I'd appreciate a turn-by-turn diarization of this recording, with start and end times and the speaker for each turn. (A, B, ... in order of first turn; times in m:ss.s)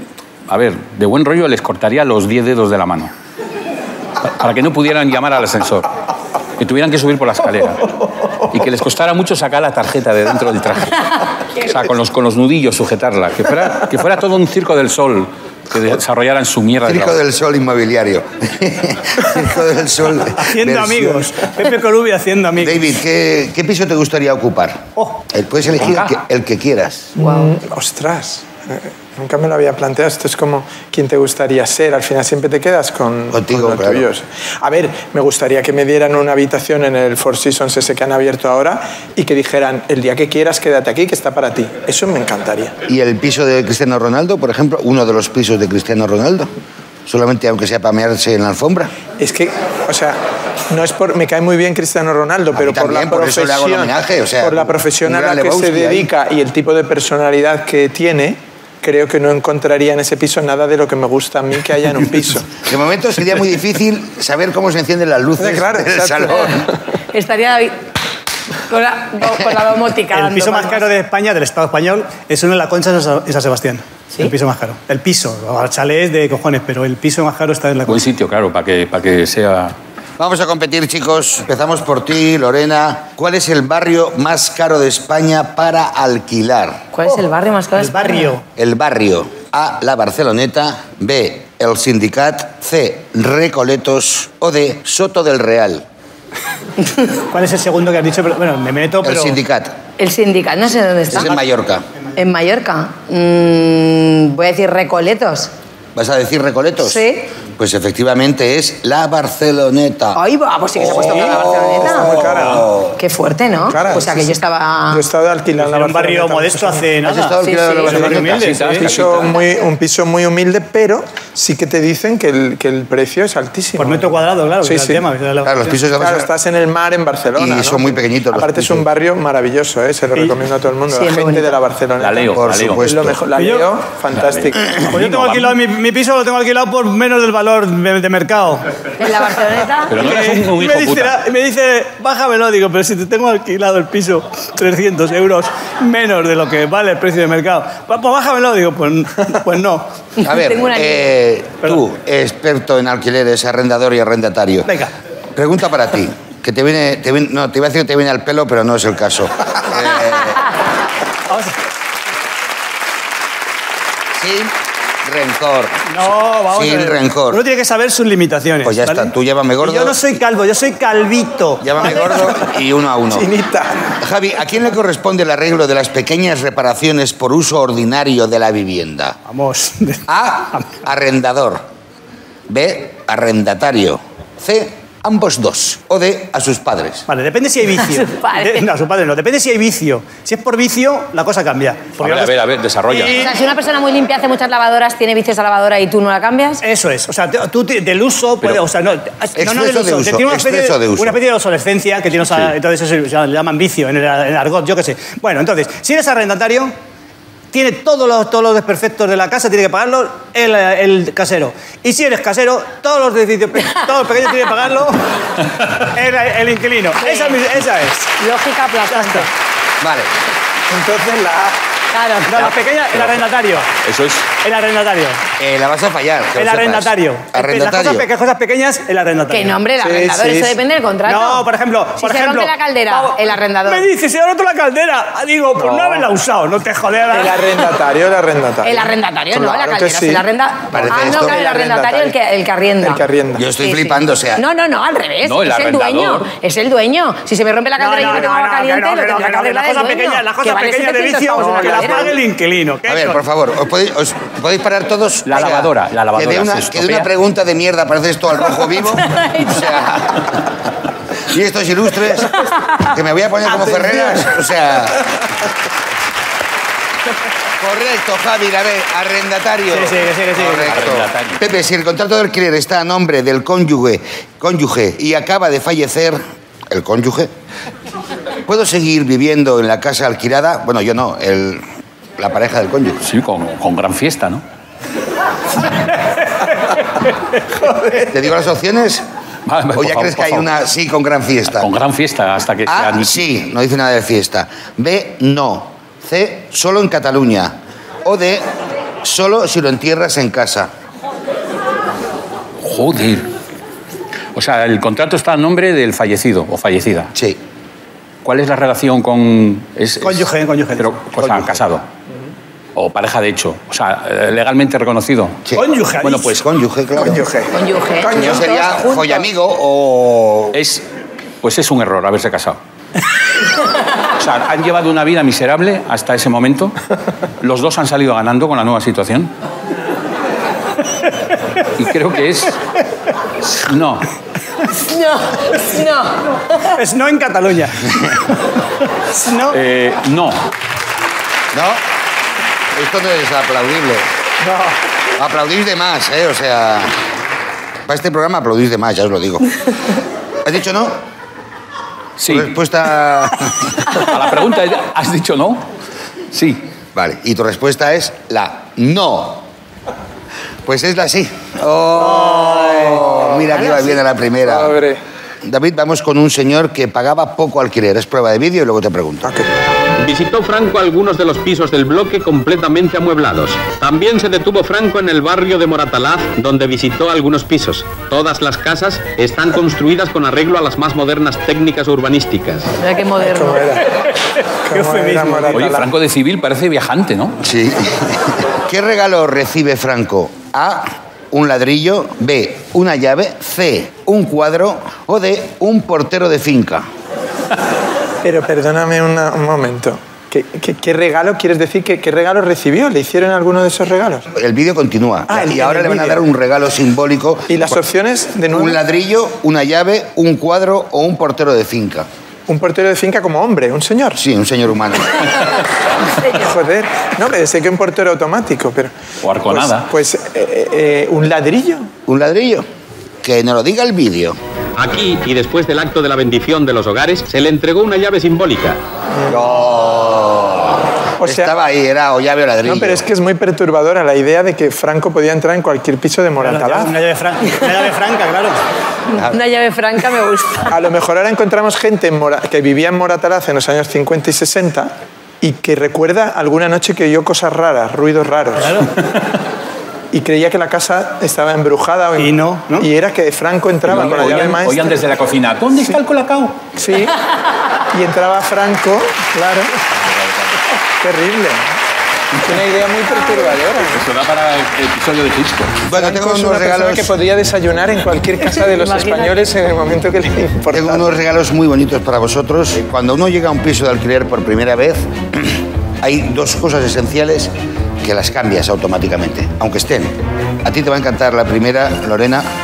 0:00.5-0:03.1 A
0:04.4-0:05.9 A
0:06.6-0:17.2 A
0:16.8-0:21.3 B
0:20.4-0:22.9 C
0:22.6-0:27.1 B
0:25.8-0:26.2 A
0:27.2-0:42.8 D
0:27.2-0:27.5 E
0:33.3-0:34.1 B
0:42.9-0:46.5 B
0:47.1-0:48.9 B
0:49.2-0:50.2 D
0:50.7-1:02.6 D
0:52.6-0:56.1 B
1:02.6-1:06.6 B
1:05.4-1:06.7 D
1:07.1-1:07.8 E
1:08.7-1:10.9 E
1:10.1-1:18.0 C
1:17.9-1:19.8 A
1:20.2-1:26.8 B
1:26.9-1:28.3 E
1:27.8-1:28.4 C
1:28.6-1:35.8 B
1:37.3-1:39.4 C
1:39.0-1:39.7 B
1:40.0-1:41.4 E
1:41.1-1:41.8 B
1:42.2-1:45.5 E
1:46.0-1:47.0 B
1:46.8-1:47.3 E
1:47.6-1:50.2 B
1:50.2-1:52.1 E
1:50.8-1:53.0 B
1:51.8-1:52.7 D
1:53.0-1:55.1 E
1:53.6-1:54.4 D
1:54.9-1:56.9 D
1:55.6-1:58.9 C
1:57.0-1:58.5 B
1:57.4-1:58.2 E
1:58.2-1:59.4 A
1:58.7-2:04.1 D
2:03.8-2:05.7 C
2:04.6-2:05.1 D
2:05.4-2:06.3 B
2:05.8-2:14.8 D
2:07.4-2:08.9 B
2:10.9-2:11.6 E
2:12.0-2:12.8 A
2:12.3-2:13.2 B
2:13.4-2:13.7 C
2:14.1-2:15.6 A
2:14.8-2:18.7 C
2:19.0-2:20.0 E
2:19.9-2:21.2 A
2:20.0-2:29.9 C
2:30.2-2:31.1 E
2:30.2-2:34.7 B
2:34.7-2:34.9 C
2:35.4-2:40.5 B
2:41.3-2:41.6 C
2:44.2-2:47.4 B
2:45.9-2:52.0 C
2:48.6-2:50.1 B
2:51.6-2:53.3 B
2:52.0-2:52.5 D
2:53.1-2:54.0 D
2:54.0-2:59.2 B
2:59.3-3:00.7 C
3:00.1-3:01.6 B
3:02.5-3:07.0 B
3:07.1-3:13.4 C
3:07.8-3:08.7 E
3:12.0-3:13.2 A
3:13.0-3:16.6 E
3:16.6-3:26.7 C
3:19.4-3:21.2 B
3:27.5-3:35.1 C
3:35.7-3:38.1 C
3:37.0-3:37.4 E
3:38.2-3:39.3 E
3:38.9-3:39.3 C
3:39.8-3:40.1 B
3:40.7-3:41.6 D
3:41.9-3:42.6 E
3:42.3-3:43.7 C
3:43.8-3:44.3 A
3:44.4-3:45.2 C
3:45.4-3:48.1 B
3:46.4-3:49.6 C
3:49.3-3:51.5 E
3:49.8-3:50.6 D
3:51.1-3:57.7 C
3:52.0-3:53.9 E
3:55.6-3:56.1 D
3:57.1-4:00.3 D
3:58.6-4:12.2 E
4:00.7-4:01.4 B
4:00.8-4:02.2 D
4:02.8-4:03.4 D
4:03.4-4:04.4 B
4:05.2-4:06.3 A
4:07.8-4:13.2 C
4:12.9-4:20.5 B
4:15.3-4:17.1 A
4:18.8-4:19.9 E
4:21.3-4:25.0 B
4:23.6-4:23.8 C
4:27.6-4:37.3 B
4:29.7-4:30.7 C
4:30.7-4:31.4 A
4:38.5-4:41.6 B
4:42.2-4:43.1 B
4:43.0-4:44.4 A
4:48.1-4:49.0 B
4:49.5-4:50.5 A
4:49.8-4:51.7 B
4:51.5-4:53.2 A
4:52.7-4:58.4 B
4:59.0-5:00.7 B
5:02.6-5:03.3 A
5:04.4-5:07.1 A
5:08.2-5:11.9 A
5:10.0-5:11.2 C
5:12.8-5:15.5 A
5:15.6-5:16.4 C
5:16.0-5:16.5 A
5:16.2-5:17.2 B
5:17.0-5:18.5 D
5:17.5-5:19.3 E
5:18.1-5:20.6 B
5:20.5-5:20.8 A
5:21.4-5:22.6 A
5:24.2-5:26.8 A
5:27.4-5:29.3 A
5:31.8-5:32.6 A
5:33.4-5:34.0 A
5:34.7-5:36.8 E
5:36.7-5:38.0 C
5:39.0-5:39.6 C
5:39.5-5:40.5 A
5:41.5-5:41.8 B
5:42.7-5:44.1 B
5:45.2-5:47.0 B
5:47.9-5:49.6 B
5:50.4-5:51.0 B
5:52.2-5:52.6 A
5:52.3-5:53.8 B
5:53.9-5:55.7 A
5:56.3-5:56.6 A
5:57.0-5:59.5 B
6:00.6-6:04.8 B
6:02.6-6:03.2 D
6:03.5-6:04.0 E
6:04.4-6:05.0 D
6:05.4-6:09.3 B
6:10.0-6:22.7 F
6:22.8-6:23.8 E
6:23.2-6:23.9 D
6:24.7-6:25.9 D
6:24.7-6:25.7 C
6:25.5-6:27.4 A
6:27.4-6:36.9 B
6:38.2-6:44.3 D
6:44.3-6:47.6 B
6:45.3-6:46.2 D
6:47.5-6:48.8 D
6:48.5-6:52.1 B
6:52.5-6:54.2 D
6:54.2-6:55.4 B
6:56.2-6:58.9 D
6:59.2-6:59.9 A
6:59.5-7:01.9 D
7:02.1-7:02.7 B
7:03.2-7:04.4 B
7:04.8-7:08.8 F
7:09.1-7:09.4 D
7:09.3-7:13.0 B
7:11.2-7:11.5 D
7:12.6-7:17.0 D
7:16.4-7:18.6 C
7:19.1-7:20.7 E
7:19.1-7:19.4 B
7:20.7-7:28.9 D
7:28.6-7:29.0 C
7:30.1-7:35.0 D
7:32.2-7:32.9 C
7:33.8-7:36.6 A
7:36.7-7:37.2 D
7:37.9-7:39.7 D
7:40.1-7:40.6 A
7:41.0-7:41.6 D
7:42.4-7:44.1 D
7:43.9-7:45.8 A
7:45.9-7:47.1 B
7:45.9-7:51.0 D
7:50.7-8:02.5 B